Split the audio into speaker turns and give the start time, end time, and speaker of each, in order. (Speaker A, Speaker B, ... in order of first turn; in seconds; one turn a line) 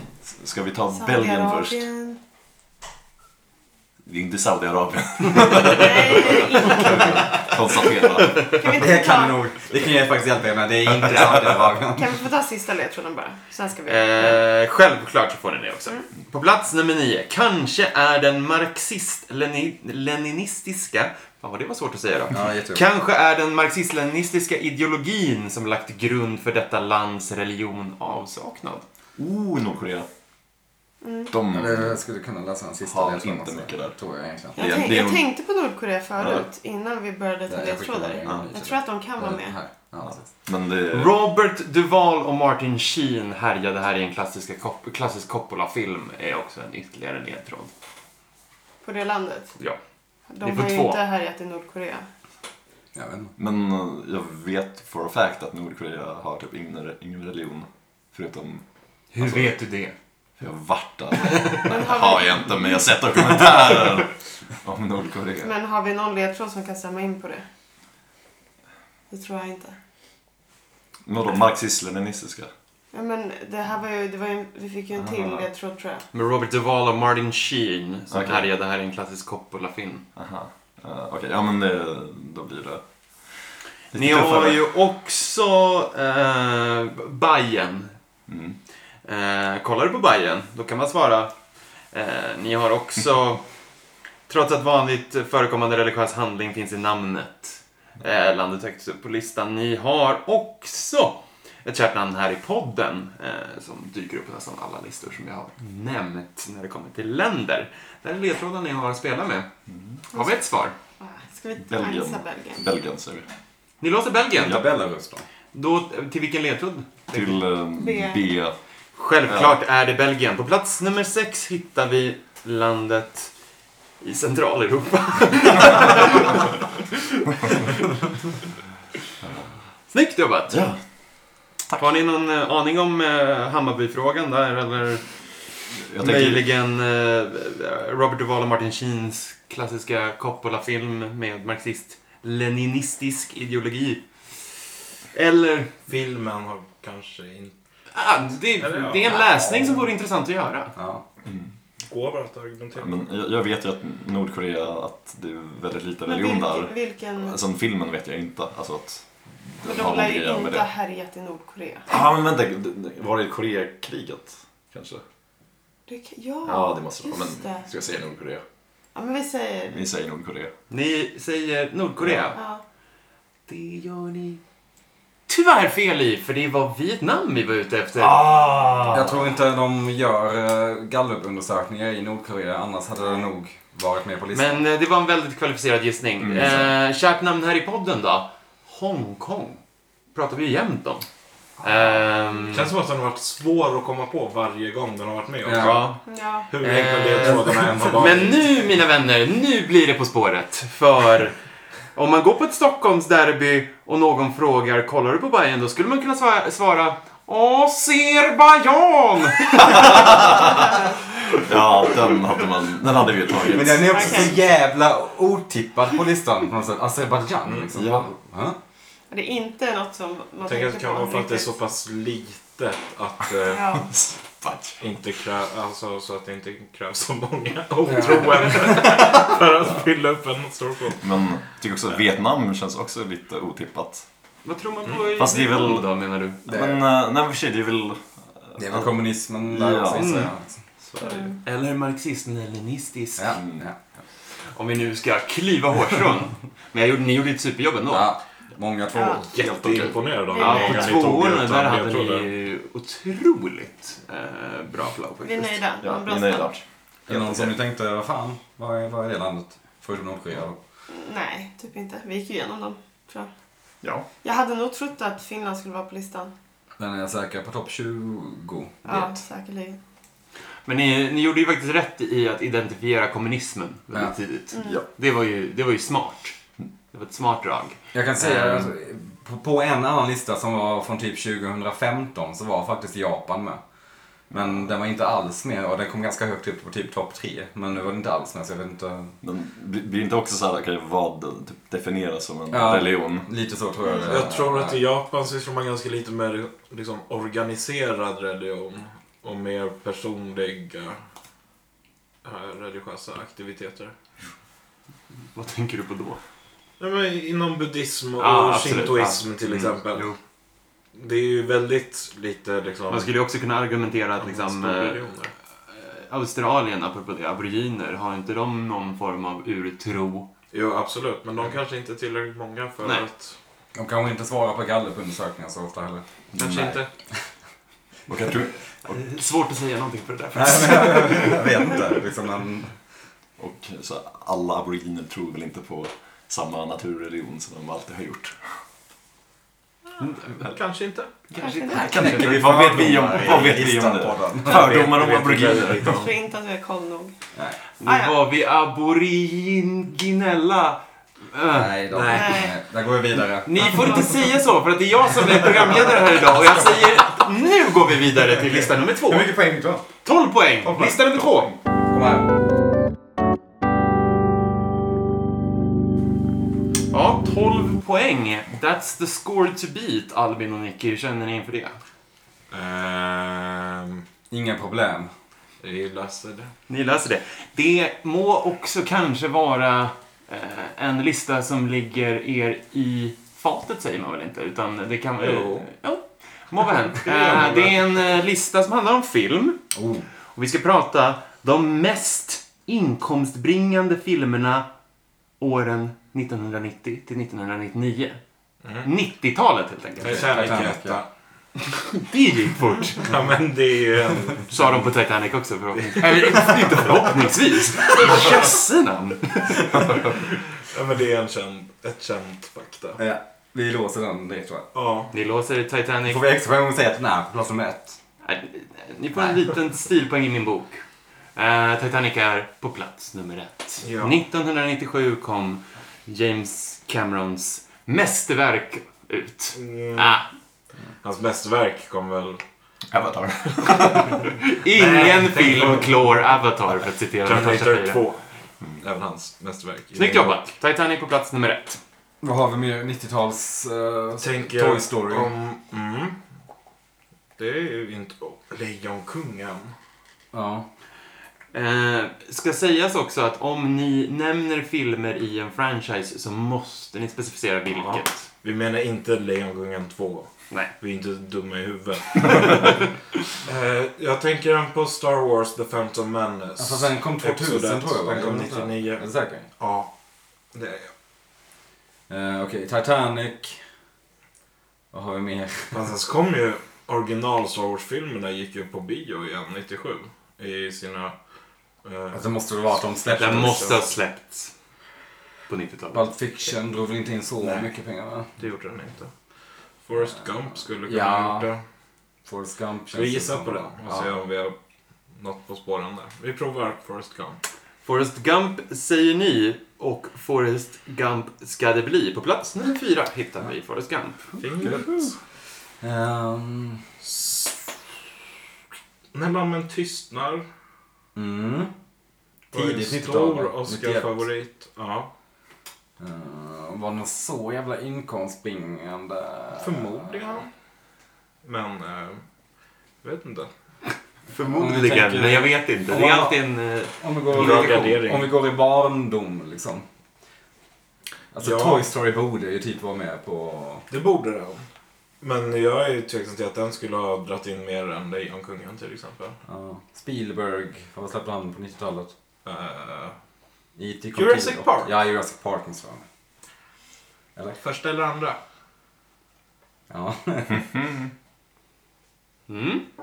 Speaker A: 0.3-1.9
Speaker B: 0.9-2.2
Speaker A: 4.0-8.6
Speaker B: 5.5-7.5
Speaker B: 8.3-9.4
Speaker C: 8.7-12.2
Speaker B: 11.9-14.4
Speaker D: 13.9-28.8
Speaker C: 22.3-22.8
Speaker A: 29.2-30.1
Speaker B: 31.0-31.3
Speaker A: 31.3-32.0
Speaker C: 31.5-34.6
Speaker A: 32.8-33.9
Speaker A: 34.5-35.3
Speaker B: 34.5-39.6
Speaker A: 36.2-36.5
Speaker C: 37.5-40.2
Speaker A: 40.4-41.1
Speaker D: 40.9-47.7
Speaker B: 48.8-49.5
Speaker B: 50.3-52.0
Speaker D: 50.4-51.0
Speaker C: 52.9-53.3
Speaker A: 53.4-58.6
Speaker D: 59.1-59.9
Speaker A: 59.2-59.5
Speaker A: 60.4-65.5
Speaker B: 61.5-62.7
Speaker B: 65.4-67.4
Speaker B: 69.1-69.8
Speaker A: 71.0-72.5
Speaker B: 72.9-76.0
Speaker A: 75.0-75.5
Speaker D: 76.1-80.0
Speaker A: 78.1-78.5
Speaker A: 80.2-82.8
Speaker A: 83.9-84.6
Speaker D: 83.9-87.9
Speaker A: 88.3-88.6
Speaker D: 89.0-91.3
Speaker D: 91.9-93.4
Speaker D: 94.3-109.5
Speaker A: 109.7-110.0
Speaker D: 110.1-110.7
Speaker B: 111.0-112.7
Speaker A: 111.7-113.3
Speaker D: 113.8-114.6
Speaker C: 114.4-115.2
Speaker D: 115.5-117.4
Speaker A: 117.1-118.5
Speaker B: 117.8-118.2
Speaker D: 119.0-123.3
Speaker A: 119.2-119.6
Speaker D: 124.0-127.7
Speaker A: 129.2-129.5
Speaker D: 129.9-130.7
Speaker A: 130.5-130.8
Speaker D: 131.7-135.1
Speaker A: 135.8-136.4
Speaker D: 135.9-144.6
Speaker D: 145.1-145.7
Speaker E: 145.8-147.5
Speaker D: 147.9-150.7
Speaker E: 148.6-149.4
Speaker C: 150.8-151.0
Speaker E: 151.8-152.9
Speaker A: 152.8-160.7
Speaker B: 156.1-157.3
Speaker B: 159.6-161.9
Speaker A: 161.9-165.0
Speaker B: 165.9-167.7
Speaker A: 166.4-168.4
Speaker B: 168.9-169.8
Speaker A: 169.7-170.5
Speaker D: 170.7-172.4
Speaker A: 172.0-172.3
Speaker B: 172.3-172.6
Speaker D: 173.5-174.4
Speaker D: 175.3-178.8
Speaker A: 178.0-179.2
Speaker C: 178.9-184.6
Speaker D: 184.3-189.6
Speaker A: 186.2-186.7
Speaker D: 190.1-191.1
Speaker D: 191.6-192.7
Speaker E: 192.5-195.9
Speaker C: 195.4-195.8
Speaker D: 195.6-196.0
Speaker B: 196.1-196.5
Speaker E: 196.5-198.4
Speaker D: 196.6-201.4
Speaker C: 197.1-198.1
Speaker D: 201.9-210.5
Speaker A: 209.6-210.7
Speaker A: 211.3-214.3
Speaker C: 213.5-218.6
Speaker B: 213.9-214.3
Speaker A: 217.7-218.1
Speaker B: 219.1-221.5
Speaker E: 220.4-223.7
Speaker B: 223.4-223.9
Speaker A: 223.9-224.8
Speaker E: 224.8-231.1
Speaker C: 227.8-228.8
Speaker A: 231.0-234.1
Speaker D: 234.4-236.4
Speaker A: 235.2-238.9
Speaker C: 236.5-236.8
Speaker C: 238.6-240.6
Speaker A: 239.5-240.2
Speaker D: 239.9-240.3
Speaker A: 240.8-241.3
Speaker B: 241.0-241.3
Speaker D: 241.4-243.4
Speaker C: 243.2-243.8
Speaker A: 243.3-243.6
Speaker D: 244.5-248.1
Speaker C: 247.9-249.2
Speaker B: 248.9-249.2
Speaker E: 249.3-252.3
Speaker A: 249.3-250.0
Speaker B: 250.3-251.1
Speaker D: 250.3-255.6
Speaker B: 255.2-256.6
Speaker A: 255.8-257.5
Speaker C: 257.1-260.6
Speaker B: 260.9-263.3
Speaker B: 264.2-266.3
Speaker C: 266.8-269.1
Speaker B: 268.9-269.8
Speaker D: 270.6-276.4
Speaker B: 274.5-274.8
Speaker D: 276.9-278.6
Speaker C: 277.9-283.6
Speaker C: 284.3-289.1
Speaker A: 289.2-293.3
Speaker C: 292.5-294.8
Speaker B: 293.8-294.1
Speaker E: 294.0-301.0
Speaker E: 302.2-303.9
Speaker D: 305.3-306.2
Speaker E: 306.8-310.1
Speaker D: 308.2-310.1
Speaker E: 310.9-313.1
Speaker D: 312.9-315.0
Speaker E: 314.2-315.3
Speaker D: 315.7-320.3
Speaker E: 320.5-323.4
Speaker C: 323.7-326.7
Speaker A: 326.4-326.8
Speaker E: 326.4-326.6
Speaker D: 326.5-326.8
Speaker A: 328.1-329.1
Speaker D: 328.9-331.7
Speaker C: 330.3-332.7
Speaker A: 333.4-338.6
Speaker D: 340.0-340.3
Speaker E: 340.4-341.1
Speaker D: 341.3-342.6
Speaker B: 341.4-342.1
Speaker C: 341.7-344.9
Speaker A: 341.9-346.1
Speaker E: 344.8-345.9
Speaker B: 345.9-347.1
Speaker D: 347.8-351.8
Speaker B: 347.8-348.1
Speaker C: 351.5-354.1
Speaker E: 351.9-352.3
Speaker B: 352.1-352.5
Speaker D: 353.4-359.3
Speaker C: 359.1-359.9
Speaker D: 360.0-361.5
Speaker C: 361.9-362.3
Speaker D: 366.9-371.8
Speaker E: 372.5-374.0
Speaker C: 374.3-375.1
Speaker E: 375.6-376.5
Speaker D: 376.7-389.6
Speaker E: 385.2-385.7
Speaker E: 387.0-387.9
Speaker C: 389.7-390.1
Speaker D: 390.3-394.7
Speaker D: 395.4-398.2
Speaker E: 398.6-398.9
Speaker D: 398.8-400.5
Speaker E: 400.0-401.1
Speaker C: 400.0-401.0
Speaker D: 401.6-403.1
Speaker E: 403.0-404.5
Speaker D: 404.5-410.2
Speaker E: 405.9-406.2
Speaker E: 410.6-413.0
Speaker C: 413.0-414.7
Speaker E: 414.7-415.1
Speaker D: 415.1-416.2
Speaker C: 416.1-418.0
Speaker D: 418.2-420.8
Speaker D: 421.4-430.3
Speaker E: 423.8-424.2
Speaker E: 429.5-430.2
Speaker E: 431.0-432.4
Speaker A: 432.9-434.3
Speaker D: 434.4-438.0
Speaker E: 434.7-436.0
Speaker E: 437.2-438.2
Speaker E: 438.8-440.4
Speaker D: 439.9-441.8
Speaker C: 442.2-445.3
Speaker E: 444.2-446.2
Speaker E: 447.4-449.7
Speaker C: 450.3-450.7
Speaker D: 451.5-458.2
Speaker E: 457.7-462.9
Speaker E: 463.4-469.9
Speaker C: 466.6-469.5
Speaker E: 470.5-470.9
Speaker C: 472.1-473.6
Speaker C: 474.9-475.8
Speaker E: 475.7-481.1
Speaker E: 481.8-483.8
Speaker C: 482.1-483.8
Speaker D: 483.2-484.5
Speaker D: 485.5-486.0
Speaker C: 485.9-488.3
Speaker E: 488.4-489.1
Speaker E: 489.8-491.6
Speaker C: 490.9-491.5
Speaker C: 492.2-494.1
Speaker E: 492.9-494.5
Speaker E: 495.1-497.4
Speaker D: 497.8-504.3
Speaker E: 504.4-505.1
Speaker C: 505.8-506.8
Speaker E: 507.0-507.5
Speaker E: 509.1-510.4
Speaker C: 511.1-511.7
Speaker E: 512.5-515.1
Speaker C: 512.5-514.2
Speaker C: 516.0-520.4
Speaker E: 519.6-520.5
Speaker E: 521.4-522.2
Speaker E: 523.0-523.5
Speaker D: 524.3-528.0
Speaker C: 524.4-529.8
Speaker E: 527.3-528.3
Speaker C: 531.3-533.9
Speaker E: 531.4-531.8
Speaker E: 533.9-534.6
Speaker E: 535.2-539.4
Speaker C: 539.5-542.1
Speaker E: 542.4-543.1
Speaker C: 543.8-546.0
Speaker E: 544.1-544.9
Speaker E: 547.6-548.4
Speaker C: 549.9-550.7
Speaker D: 552.5-552.8